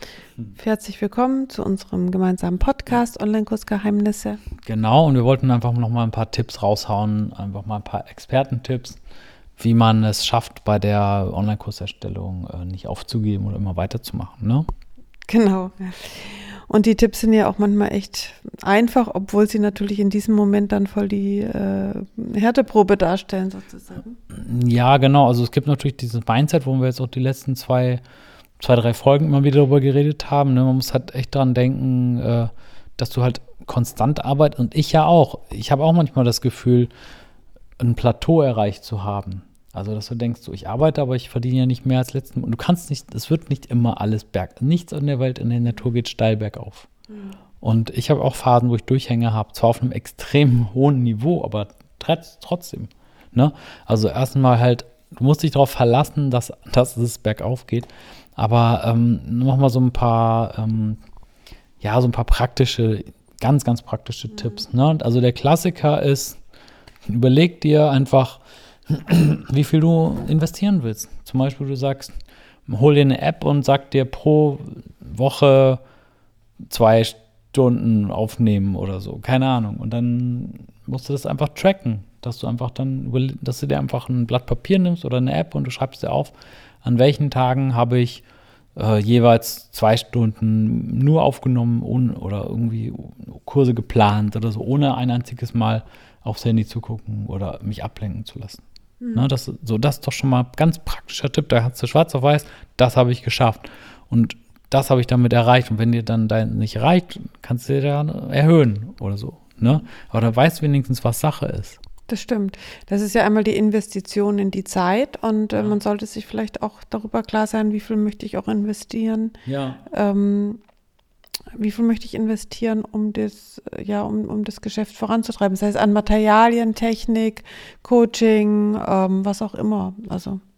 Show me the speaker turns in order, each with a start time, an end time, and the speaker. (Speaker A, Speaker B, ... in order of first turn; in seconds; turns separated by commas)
Speaker A: 0.6-4.4, Speaker B: 4.7-9.0, Speaker B: 9.6-14.7, Speaker A: 15.3-24.1, Speaker B: 24.3-28.0, Speaker B: 28.6-36.9, Speaker B: 37.8-46.9, Speaker A: 47.1-47.4, Speaker B: 47.6-61.0, Speaker B: 61.8-66.4, Speaker B: 67.1-72.2, Speaker B: 72.7-75.8, Speaker B: 76.7-88.2, Speaker B: 88.8-98.6, Speaker A: 99.0-99.2, Speaker B: 99.1-111.8, Speaker A: 112.1-120.6, Speaker B: 119.4-119.8, Speaker A: 121.5-130.4